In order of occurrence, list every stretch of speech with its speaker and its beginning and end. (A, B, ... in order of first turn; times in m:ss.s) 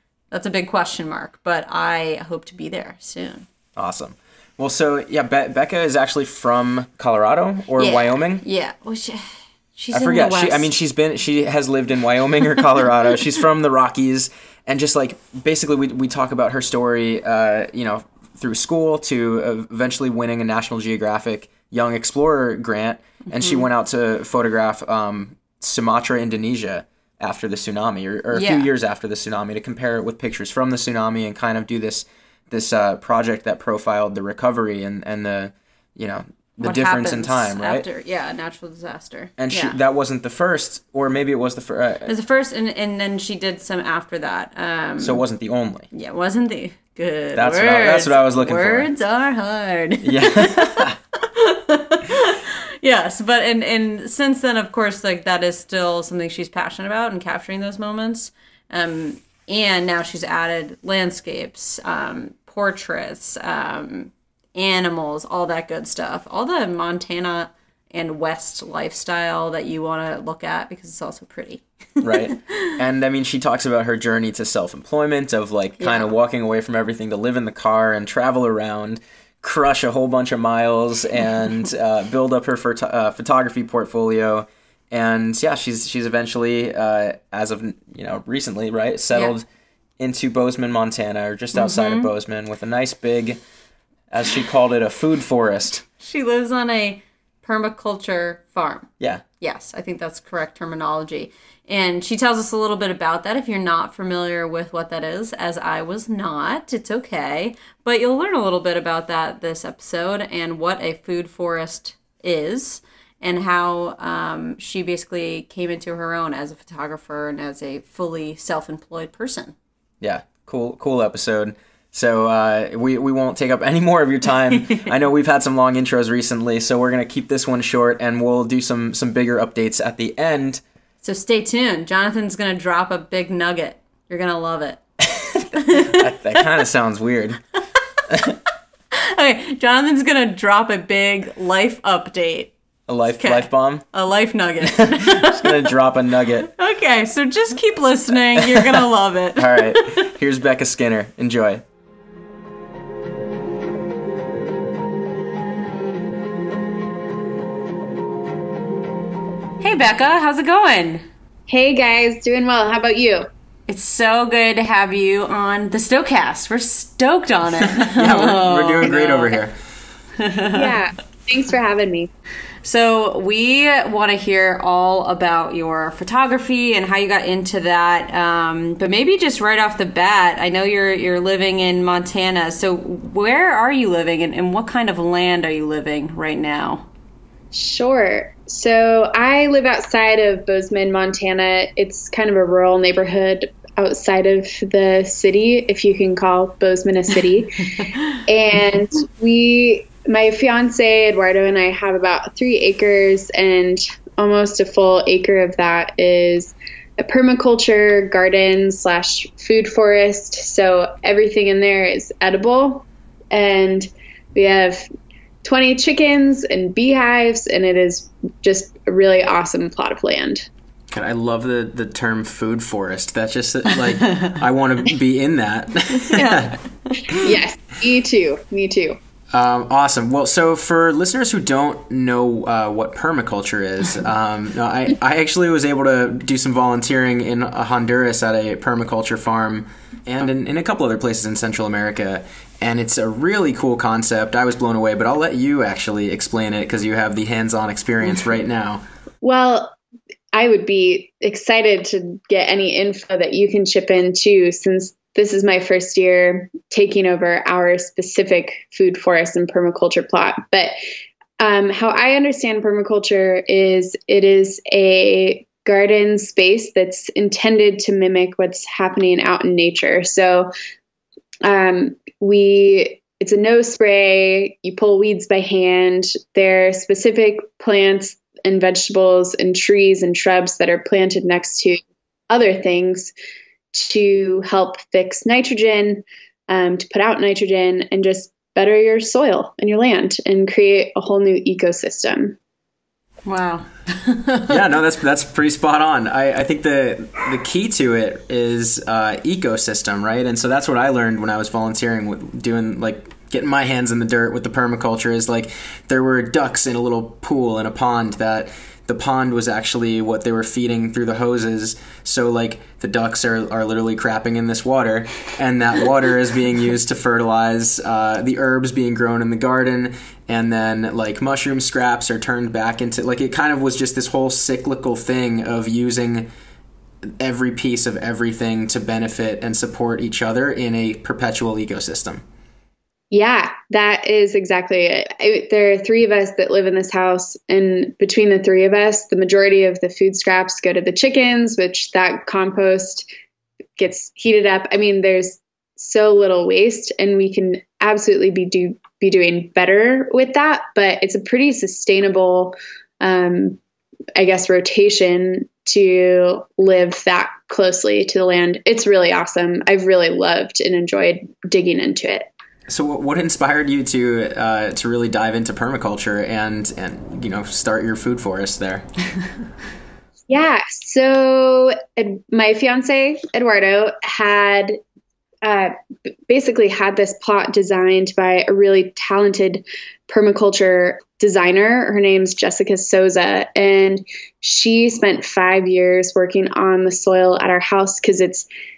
0:00.3-0:03.5 A
0:03.8-0:08.4 B
0:07.8-0:10.7 A
0:09.9-0:37.8 B
0:23.3-0:23.6 A
0:28.3-0:28.7 A
0:36.6-0:39.8 A
0:39.4-0:42.1 B
0:42.1-0:45.2 A
0:45.0-0:45.9 B
0:45.9-1:12.8 A
0:47.4-0:48.9 B
0:50.0-0:51.0 B
1:12.0-1:29.5 B
1:15.8-1:16.1 A
1:30.0-1:33.4 B
1:31.6-1:32.1 A
1:34.1-1:35.8 B
1:36.0-1:38.9 A
1:39.4-1:59.5 A
2:00.0-2:10.6 B
2:11.0-2:14.8 A
2:15.1-2:17.4 B
2:15.4-2:16.4 A
2:18.1-2:18.4 B
2:18.9-2:22.5 A
2:22.9-2:23.8 B
2:23.2-2:25.8 A
2:24.6-2:26.5 B
2:26.4-2:30.1 A
2:28.3-2:31.6 B
2:39.6-2:41.1 A
2:41.5-2:43.3 C
2:43.7-2:49.4 A
2:47.7-2:49.5 B
2:50.2-2:50.8 A
2:50.5-2:52.1 C
2:52.6-3:06.9 A
3:07.5-3:34.9 C
3:35.4-3:40.5 C
3:40.9-3:47.2 B
3:44.0-3:44.4 A
3:46.1-3:47.1 A
3:47.1-3:49.0 C
3:49.3-4:08.8 B
4:09.2-4:09.8 C
4:10.3-4:20.7 C
4:21.4-4:30.5 C
4:31.4-4:43.1 C
4:43.7-4:52.4 C
4:53.3-4:54.6 A
4:54.5-5:26.3 B
5:27.1-5:32.2 B
5:33.1-5:43.1 C
5:43.8-5:53.6 C
5:54.2-6:02.3 C
6:02.7-6:08.9 B
6:10.3-6:14.8 C
6:15.4-6:15.7 C
6:16.3-6:28.5 C